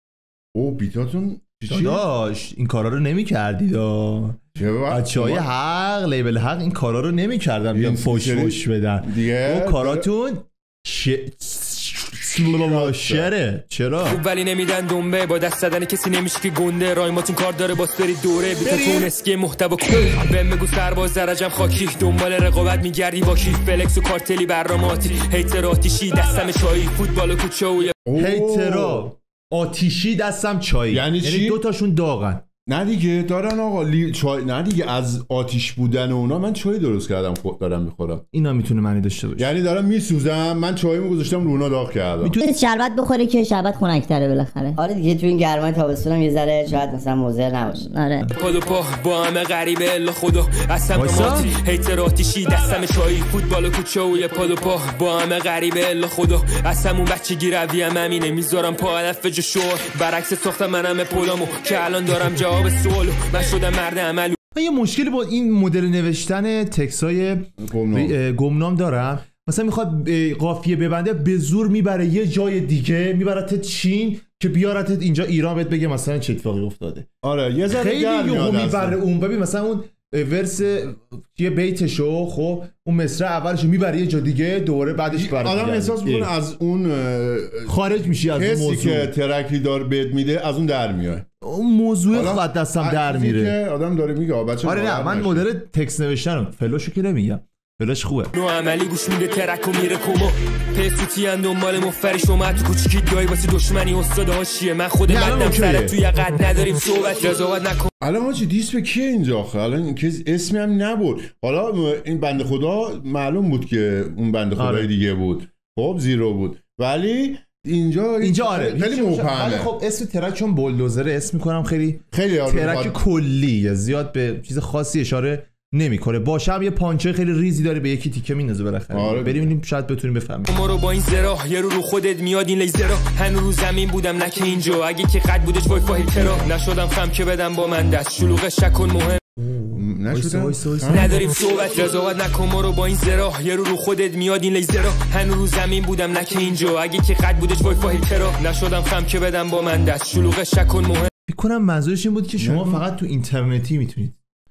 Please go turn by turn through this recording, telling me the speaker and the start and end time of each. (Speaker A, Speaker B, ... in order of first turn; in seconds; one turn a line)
Speaker A: 0.5-2.0
Speaker B: 1.7-14.2
Speaker A: 4.6-5.5
Speaker A: 7.7-10.1
Speaker A: 12.3-13.3
Speaker C: 14.0-27.9
Speaker B: 18.6-19.1
Speaker A: 28.1-29.1
Speaker B: 28.1-32.4
Speaker A: 30.9-31.6
Speaker A: 32.7-38.2
Speaker B: 38.3-39.5
Speaker A: 39.4-42.4
Speaker D: 42.4-44.8
Speaker E: 44.7-47.9
Speaker D: 47.8-48.2
Speaker C: 48.3-64.3
Speaker B: 50.9-51.5
Speaker B: 64.5-77.0
Speaker A: 67.6-68.2
Speaker A: 77.2-79.0
Speaker B: 77.7-86.3
Speaker A: 85.1-91.3
Speaker B: 87.6-89.1
Speaker B: 91.4-93.5
Speaker A: 92.1-95.5
Speaker B: 94.6-98.3
Speaker C: 98.3-107.9
Speaker B: 105.1-106.0
Speaker A: 108.0-119.7
Speaker B: 114.5-114.9
Speaker B: 118.2-130.5
Speaker A: 122.1-123.0
Speaker A: 128.9-129.5
Speaker C: 130.5-139.2
Speaker A: 136.2-136.5
Speaker B: 139.4-141.1
Speaker A: 139.7-141.2
Speaker C: 140.9-151.1
Speaker B: 151.3-154.2
Speaker A: 152.4-152.9